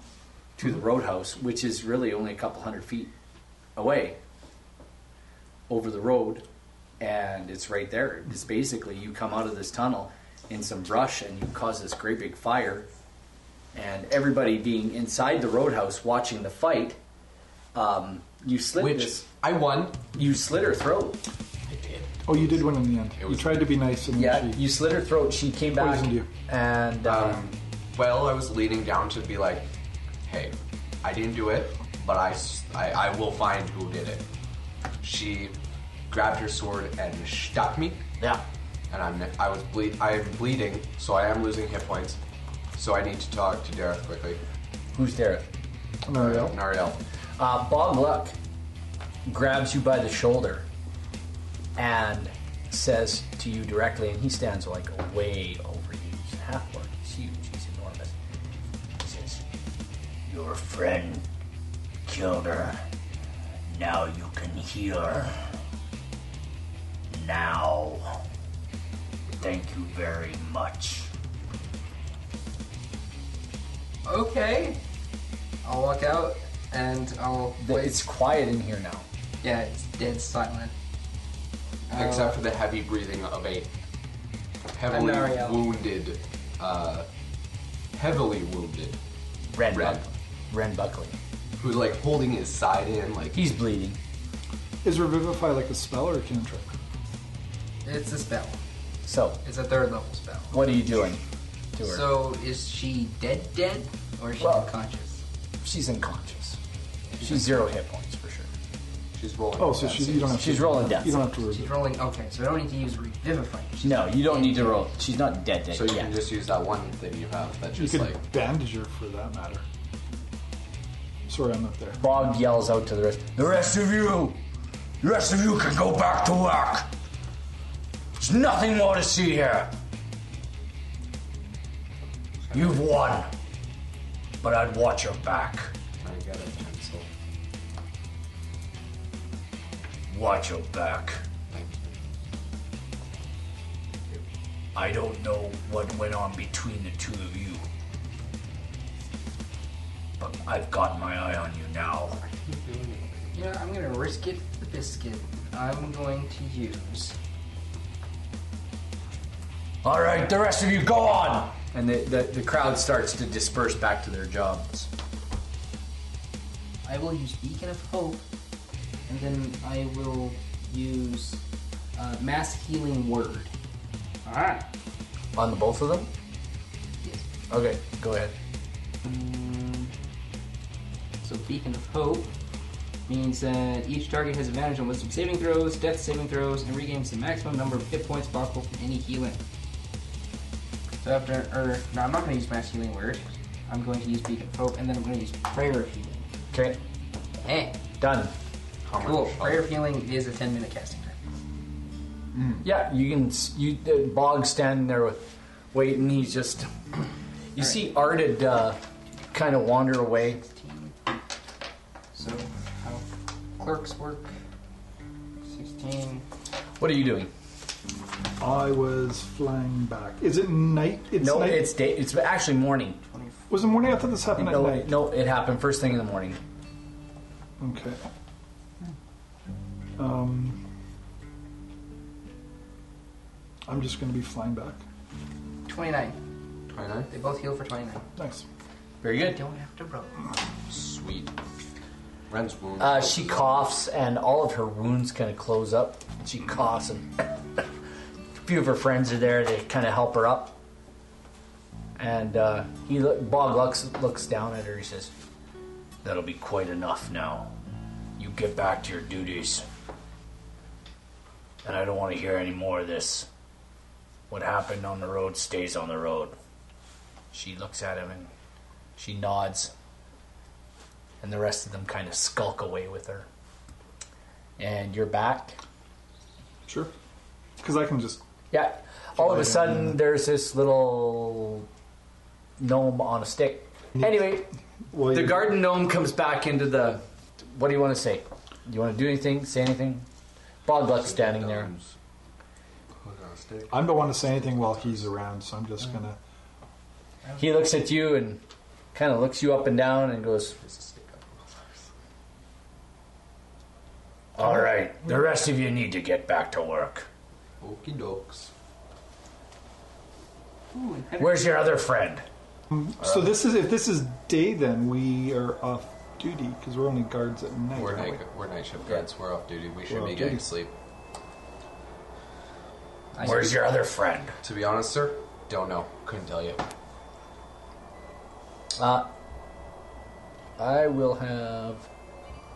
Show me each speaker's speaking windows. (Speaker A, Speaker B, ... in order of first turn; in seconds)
Speaker A: 0.6-3.1, 3.8-4.2, 5.7-6.5, 7.0-12.9, 13.7-17.0, 17.7-19.2, 20.1-21.2, 24.1-27.4, 44.9-45.5, 47.4-48.4, 49.3-50.7, 51.8-58.1, 59.0-59.4, 60.3-61.3, 62.0-62.8, 63.7-65.4, 67.1-68.2, 69.4-71.1, 77.6-79.1, 89.5-91.2, 93.3-94.0, 99.0-99.4, 100.5-101.2, 101.7-102.1, 104.4-104.7, 105.6-106.6, 107.2-108.5, 110.4-111.3, 113.8-116.2, 122.0-124.4, 125.0-126.9, 128.2-129.7, 132.5-133.3, 134.4-135.7, 140.1-141.2, 144.8-147.6, 150.2-152.2, 159.8-164.9, 175.3-176.1, 177.5-178.3, 196.5-196.8, 198.0-198.3, 202.6-206.7, 207.5-208.8, 209.3-210.4, 216.8-217.3, 221.2-223.0, 224.4-226.4, 239.0-239.4, 242.8-247.7, 248.4-250.6, 252.0-255.1, 256.0-257.5, 258.2-259.7, 261.6-263.3, 264.3-266.4, 267.3-268.3, 269.0-269.7, 271.2-273.3, 274.6-275.6, 278.5-281.7, 282.6-284.5, 285.1-290.1, 290.6-291.7, 297.4-298.4, 298.9-300.6, 304.4-307.1, 311.2-312.3, 323.2-324.4, 328.8-329.1, 330.6-331.9
Speaker B: 18.8-20.1, 21.7-23.6, 27.0-29.7, 30.3-34.2, 35.0-35.6, 36.1-38.0, 38.9-42.2, 42.8-44.4, 46.1-47.0, 81.9-83.7, 84.8-87.1, 87.9-89.0, 89.7-90.1, 91.6-93.4, 109.2-110.5, 115.7-118.2, 136.0-137.1, 141.5-141.9, 152.2-153.2, 198.9-199.7, 202.3-202.6, 236.7-237.1, 240.7-241.3, 242.3-243.7, 290.9-291.9, 293.0-295.1, 300.6-301.6, 307.6-308.5, 313.0-313.3, 317.7-320.7, 324.4-326.6
Speaker C: 22.3-24.6, 25.8-26.3, 46.1-46.6, 94.8-96.7, 109.6-111.7, 117.8-119.7, 121.3-122.0, 218.4-221.7, 223.5-225.0, 227.6-228.1, 230.0-230.6, 233.7-234.8, 238.2-238.4, 276.7-276.9, 277.6-278.2, 279.2-280.0, 284.9-285.5, 293.7-296.2, 312.7-318.2, 319.9-320.5
Speaker D: 74.0-74.8, 75.6-78.0, 79.4-80.7, 81.9-82.4, 84.9-85.7, 97.8-98.6, 99.4-100.6, 101.8-105.2, 111.5-114.8, 153.3-157.2, 166.8-168.2, 169.1-171.4, 171.9-173.5, 174.2-174.7, 179.0-179.9, 181.2-182.3, 183.1-189.4, 191.0-196.3, 197.4-197.8, 199.0-201.2, 207.6-207.9, 210.3-210.9, 212.1-213.1, 213.6-214.3, 215.5-216.2, 223.1-223.5, 235.7-236.2, 237.1-238.1, 239.3-240.2, 310.7-311.5, 323.1-323.6